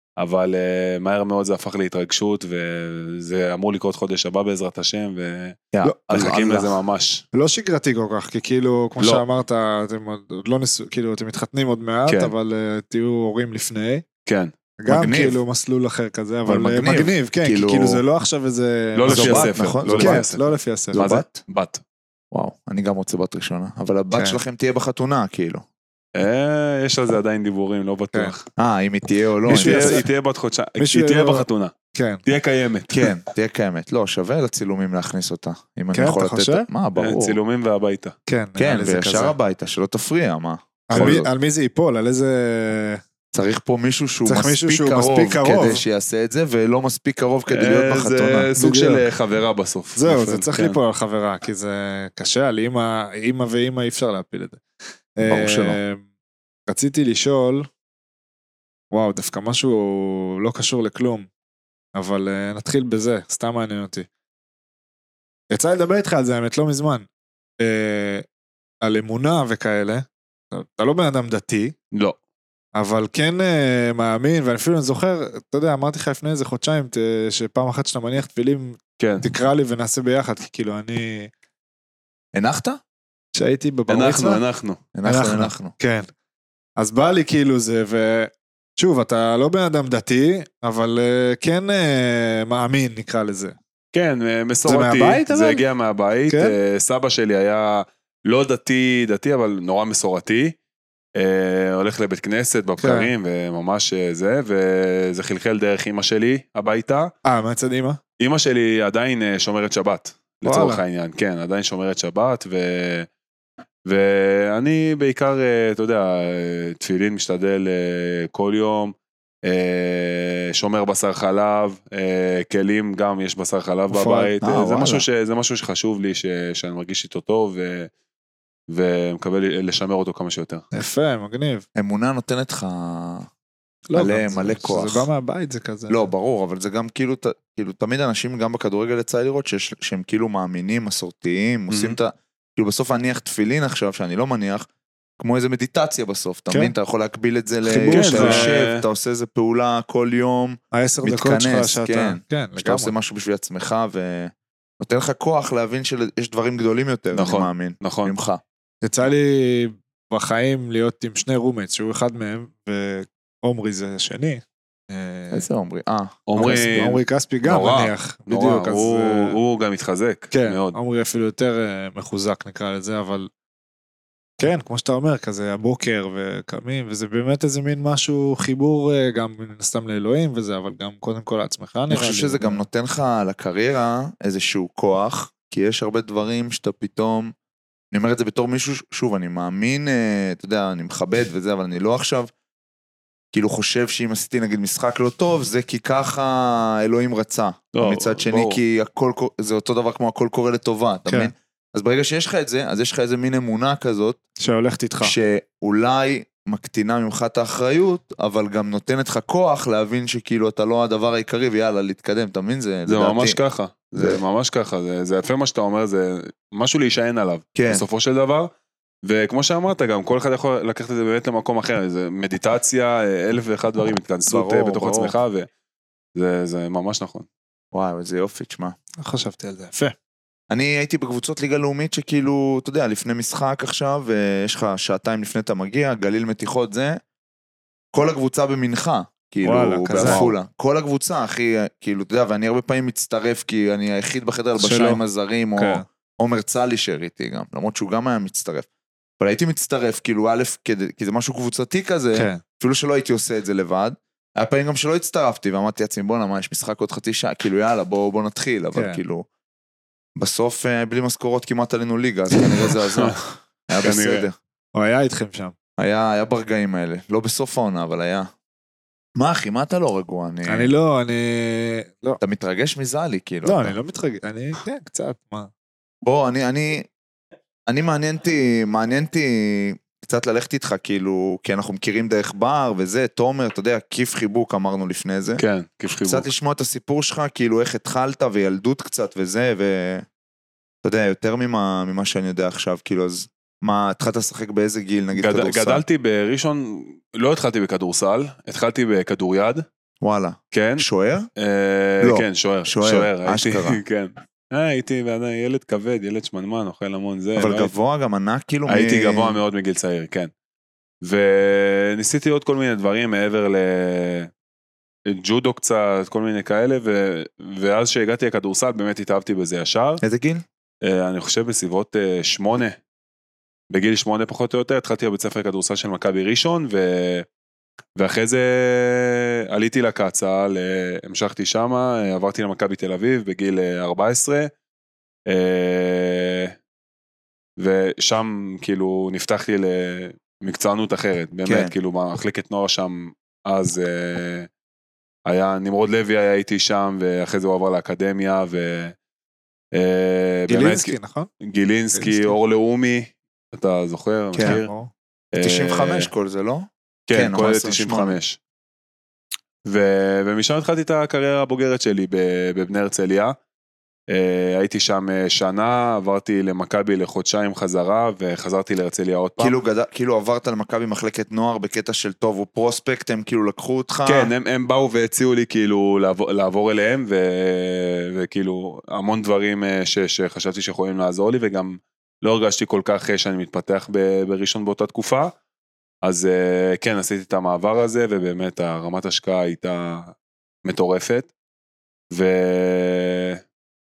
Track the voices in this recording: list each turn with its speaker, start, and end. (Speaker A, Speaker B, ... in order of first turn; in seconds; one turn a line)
Speaker A: 0.2-7.2
Speaker B: 5.7-6.8
Speaker C: 7.3-14.1
Speaker A: 12.1-12.3
Speaker A: 14.3-14.5
Speaker C: 14.8-21.1
Speaker B: 14.9-15.4
Speaker B: 16.5-18.0
Speaker A: 19.0-21.8
Speaker B: 19.1-20.2
Speaker B: 20.9-21.3
Speaker B: 22.3-25.6
Speaker C: 24.1-24.4
Speaker A: 26.2-28.4
Speaker B: 28.6-30.0
Speaker C: 29.5-30.1
Speaker A: 29.5-31.7
Speaker C: 30.8-32.2
Speaker A: 32.3-33.1
Speaker B: 32.9-37.4
Speaker C: 35.9-36.7
Speaker A: 37.0-38.1
Speaker C: 38.3-39.4
Speaker B: 38.6-41.3
Speaker C: 40.9-43.0
Speaker A: 40.9-41.2
Speaker B: 43.3-48.5
Speaker C: 44.3-45.8
Speaker A: 47.5-50.8
Speaker C: 48.5-49.1
Speaker C: 50.0-54.6
Speaker C: 55.2-56.0
Speaker B: 55.2-55.8
Speaker C: 56.7-57.7
Speaker C: 58.9-61.3
Speaker C: 62.0-64.1
Speaker C: 65.5-67.1
Speaker C: 67.6-68.2
Speaker C: 68.8-71.8
Speaker A: 71.9-72.2
Speaker C: 72.8-81.3
Speaker A: 79.0-79.2
Speaker B: 82.3-82.8
Speaker C: 83.3-84.4
Speaker A: 83.9-84.8
Speaker B: 84.9-85.7
Speaker C: 85.0-86.1
Speaker C: 86.8-93.5
Speaker A: 93.9-100.5
Speaker C: 94.7-95.7
Speaker C: 96.3-96.6
Speaker A: 101.2-107.1
Speaker C: 102.8-103.1
Speaker C: 107.2-108.0
Speaker A: 108.2-113.1
Speaker C: 110.5-110.8
Speaker A: 113.9-127.9
Speaker C: 123.9-124.3
Speaker B: 124.4-125.1
Speaker A: 128.7-130.6
Speaker C: 130.7-131.6
Speaker B: 131.8-133.3
Speaker C: 133.9-136.0
Speaker B: 133.9-135.1
Speaker B: 135.9-144.7
Speaker A: 141.7-142.0
Speaker B: 145.2-158.4
Speaker C: 146.5-146.8
Speaker C: 147.6-148.6
Speaker A: 147.9-148.8
Speaker C: 150.7-152.9
Speaker A: 157.1-158.1
Speaker C: 158.8-165.5
Speaker B: 165.3-166.9
Speaker A: 166.3-170.8
Speaker C: 166.4-169.4
Speaker C: 170.3-173.3
Speaker C: 174.4-182.6
Speaker B: 181.9-187.3
Speaker B: 187.9-192.3
Speaker B: 193.3-204.2
Speaker A: 197.7-198.6
Speaker C: 201.1-201.3
Speaker C: 204.4-205.1
Speaker B: 205.0-213.4
Speaker A: 212.9-218.5
Speaker B: 213.9-214.2
Speaker B: 217.6-217.8
Speaker A: 219.0-225.5
Speaker B: 224.3-225.2
Speaker A: 226.2-227.3
Speaker B: 227.7-228.8
Speaker C: 229.0-229.9
Speaker B: 230.5-237.0
Speaker B: 237.9-248.7
Speaker C: 239.4-240.3
Speaker A: 239.9-240.3
Speaker C: 244.6-245.0
Speaker C: 245.6-245.8
Speaker B: 249.2-259.3
Speaker C: 252.1-252.4
Speaker C: 258.7-259.0
Speaker B: 260.2-264.4
Speaker A: 263.8-264.3
Speaker C: 264.8-265.6
Speaker B: 265.8-268.3
Speaker B: 269.2-270.7
Speaker C: 270.5-272.2
Speaker B: 272.2-273.8
Speaker C: 273.4-275.5
Speaker B: 276.0-276.9
Speaker B: 277.7-285.4
Speaker A: 285.4-286.3
Speaker B: 286.0-290.1
Speaker B: 290.8-295.8
Speaker A: 295.1-299.6
Speaker B: 300.0-301.3
Speaker A: 300.5-300.9
Speaker A: 301.4-307.7
Speaker B: 302.0-303.8
Speaker B: 307.4-309.4
Speaker A: 308.7-310.3
Speaker A: 311.0-314.3
Speaker A: 315.1-320.0
Speaker B: 320.0-320.4
Speaker A: 320.8-322.8
Speaker A: 323.7-327.3
Speaker A: 328.0-334.5
Speaker A: 335.3-336.6
Speaker A: 337.6-344.5
Speaker B: 341.4-341.7
Speaker A: 345.3-348.9
Speaker A: 349.7-354.7
Speaker C: 350.5-351.3
Speaker C: 351.9-352.4
Speaker B: 354.3-354.6
Speaker C: 354.4-354.9
Speaker A: 355.3-356.1
Speaker B: 355.4-358.2
Speaker A: 357.1-358.4
Speaker A: 359.7-363.4
Speaker A: 364.1-369.6
Speaker B: 369.4-374.3
Speaker A: 374.1-385.3
Speaker A: 386.0-391.3
Speaker A: 392.1-393.4